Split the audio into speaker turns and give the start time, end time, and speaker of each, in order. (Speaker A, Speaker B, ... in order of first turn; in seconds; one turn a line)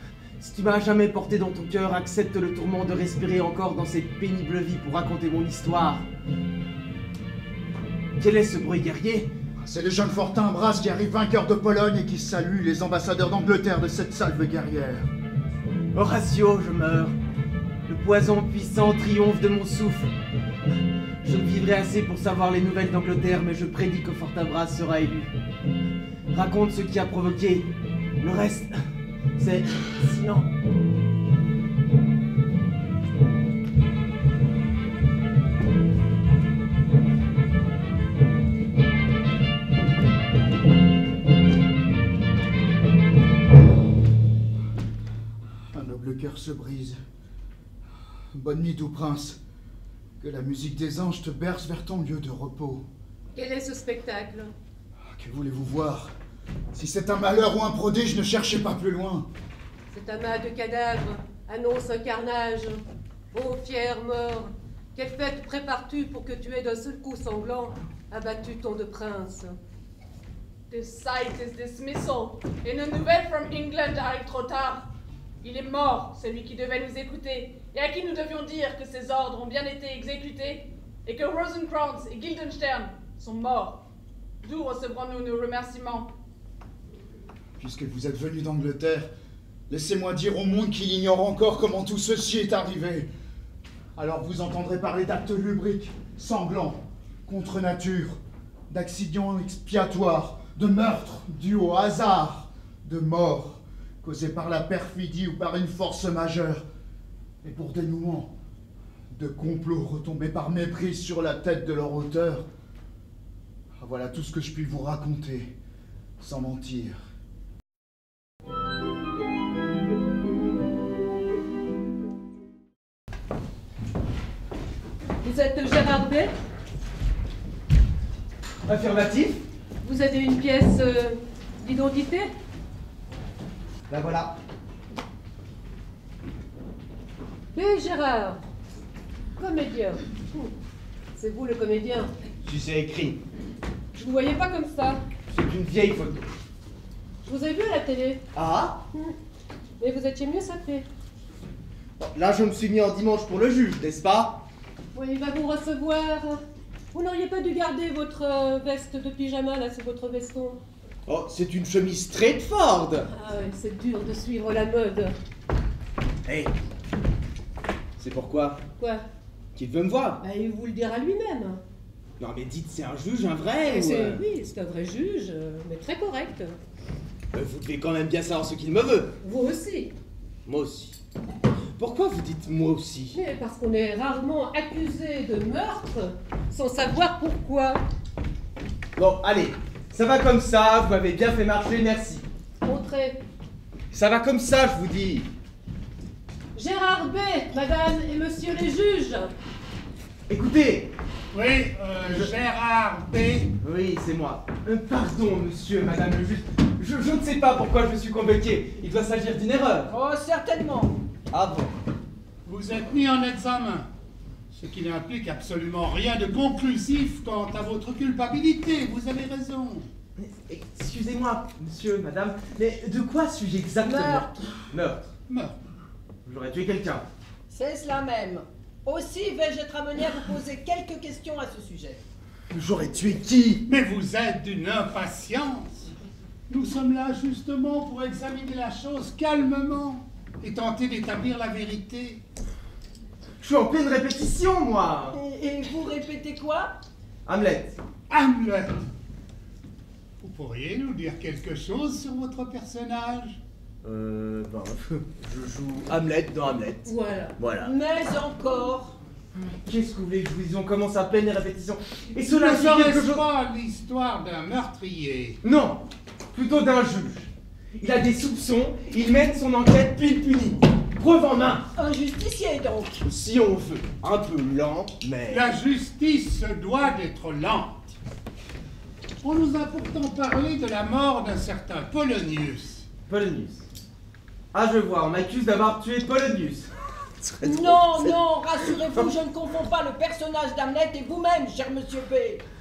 Speaker A: 0.4-6.0
Speaker A: 8.2-9.3
Speaker B: 9.6-15.1
Speaker A: 15.9-17.1
Speaker A: 17.9-20.1
Speaker A: 21.2-25.3
Speaker A: 26.3-27.7
Speaker A: 28.2-28.8
Speaker A: 29.4-30.5
Speaker B: 45.7-47.0
Speaker B: 48.3-49.4
Speaker B: 50.2-52.8
Speaker C: 53.3-54.5
Speaker B: 55.1-56.1
Speaker B: 56.7-59.3
Speaker C: 59.9-69.6
Speaker D: 70.7-74.9
Speaker D: 75.4-83.8
Speaker D: 84.4-86.1
Speaker B: 87.6-89.1
Speaker B: 89.7-93.1
Speaker B: 94.0-106.6
Speaker B: 107.4-108.3
Speaker B: 109.1-112.5
Speaker B: 113.8-115.5
Speaker B: 116.2-117.0
Speaker C: 125.2-126.3
Speaker A: 128.7-129.4
Speaker C: 129.8-132.3
Speaker A: 133.9-134.3
Speaker C: 137.5-138.4
Speaker C: 139.4-140.5
Speaker C: 141.2-142.1
Speaker A: 142.4-143.2
Speaker C: 143.9-145.0
Speaker A: 145.3-146.3
Speaker C: 147.2-148.2
Speaker A: 148.3-148.8
Speaker C: 149.8-150.8
Speaker A: 152.0-154.4
Speaker C: 154.9-160.6
Speaker A: 161.1-163.1
Speaker C: 163.1-165.2
Speaker A: 166.2-166.5
Speaker A: 168.0-168.6
Speaker C: 168.8-169.0
Speaker A: 169.6-170.2
Speaker C: 170.2-171.6
Speaker A: 172.2-174.2
Speaker C: 173.6-176.6
Speaker A: 177.3-179.2
Speaker C: 179.2-179.9
Speaker A: 180.4-181.0
Speaker A: 181.8-183.2
Speaker C: 183.1-187.8
Speaker A: 188.9-192.2
Speaker C: 192.6-193.2
Speaker A: 193.9-195.3
Speaker C: 196.5-199.3
Speaker A: 200.3-200.9
Speaker E: 201.3-203.5
Speaker A: 203.6-209.9
Speaker F: 209.9-210.9
Speaker A: 211.3-211.7
Speaker E: 212.4-213.9
Speaker E: 214.5-219.9
Speaker A: 220.2-225.1
Speaker F: 223.8-224.3
Speaker E: 225.3-225.6
Speaker A: 226.2-227.1
Speaker F: 227.5-232.0
Speaker A: 232.5-233.6
Speaker E: 233.7-235.9
Speaker E: 236.5-242.2
Speaker A: 243.4-245.2
Speaker F: 245.1-246.8
Speaker A: 247.2-247.8
Speaker E: 248.1-248.9
Speaker E: 250.2-253.4
Speaker A: 253.8-257.7
Speaker C: 256.8-257.3
Speaker F: 257.6-258.9
Speaker A: 259.3-263.2
Speaker E: 262.2-265.4
Speaker A: 265.4-265.8
Speaker A: 266.3-271.6
Speaker F: 271.8-273.0
Speaker A: 273.0-275.5
Speaker E: 275.3-277.8
Speaker E: 279.2-282.9
Speaker A: 283.1-283.6
Speaker A: 284.5-286.7
Speaker A: 287.2-289.1
Speaker F: 287.4-292.4